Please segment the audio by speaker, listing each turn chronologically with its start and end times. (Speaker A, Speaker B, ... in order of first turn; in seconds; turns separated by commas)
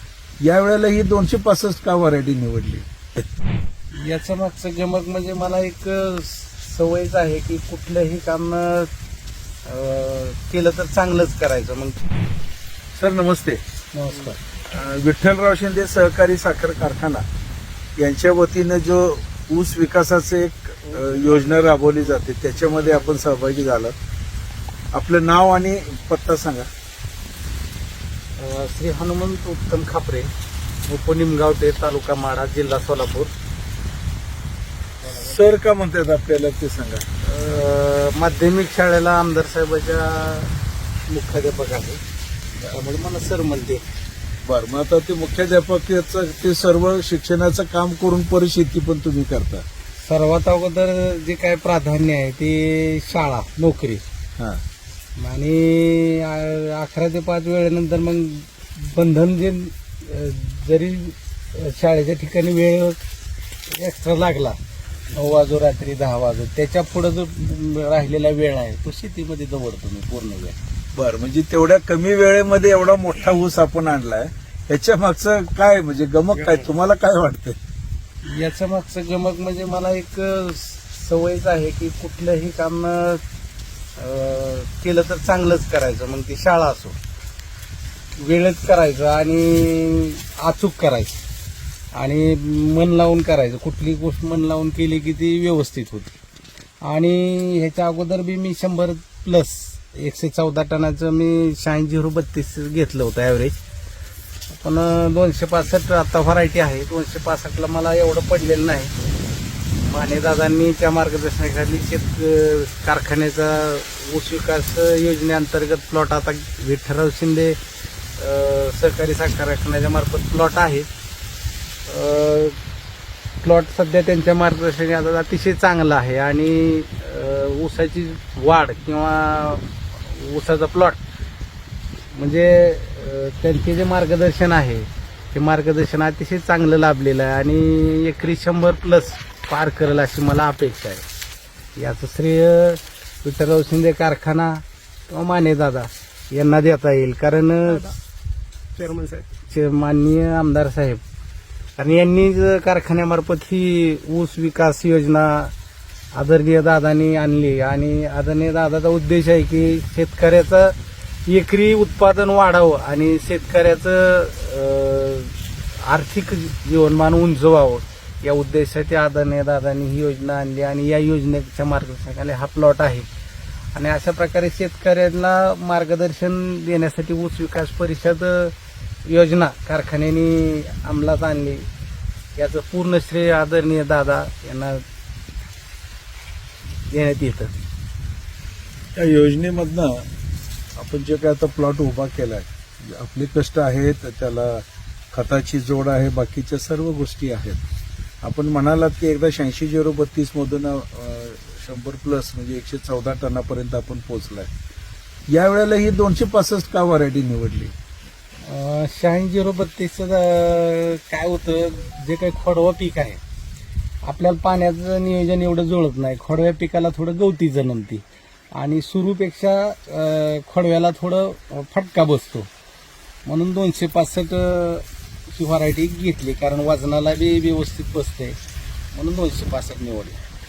Speaker A: 0.4-3.0, Speaker B: 3.9-8.9, Speaker B: 9.7-12.1, Speaker A: 12.9-13.6, Speaker B: 13.9-14.4, Speaker A: 14.6-17.2, Speaker A: 18.0-23.9, Speaker B: 21.2-21.4, Speaker A: 24.9-26.7, Speaker B: 28.4-30.3, Speaker B: 30.9-33.3, Speaker A: 35.1-37.1, Speaker B: 37.2-40.5, Speaker B: 41.1-42.0, Speaker B: 42.6-43.9, Speaker A: 44.5-49.6, Speaker B: 50.0-54.0, Speaker B: 55.2-63.0, Speaker B: 63.7-64.6, Speaker B: 65.1-70.6, Speaker A: 71.0-77.6, Speaker B: 78.2-83.2, Speaker B: 84.0-87.0, Speaker B: 88.2-91.2, Speaker B: 91.9-96.2, Speaker B: 96.8-103.6, Speaker B: 104.5-109.0, Speaker B: 109.8-117.6, Speaker B: 118.2-120.9, Speaker B: 121.9-122.6, Speaker B: 123.4-131.0, Speaker B: 132.1-141.1, Speaker B: 141.8-148.0, Speaker B: 148.8-151.0, Speaker B: 151.8-155.5, Speaker B: 156.1-173.1, Speaker B: 173.7-181.7, Speaker B: 182.3-184.8, Speaker B: 186.9-187.5, Speaker A: 188.9-190.1, Speaker A: 190.8-197.6, Speaker A: 198.2-204.5, Speaker A: 205.3-207.8, Speaker B: 208.4-213.2, Speaker B: 214.0-222.5, Speaker B: 223.2-228.4, Speaker B: 228.9-230.2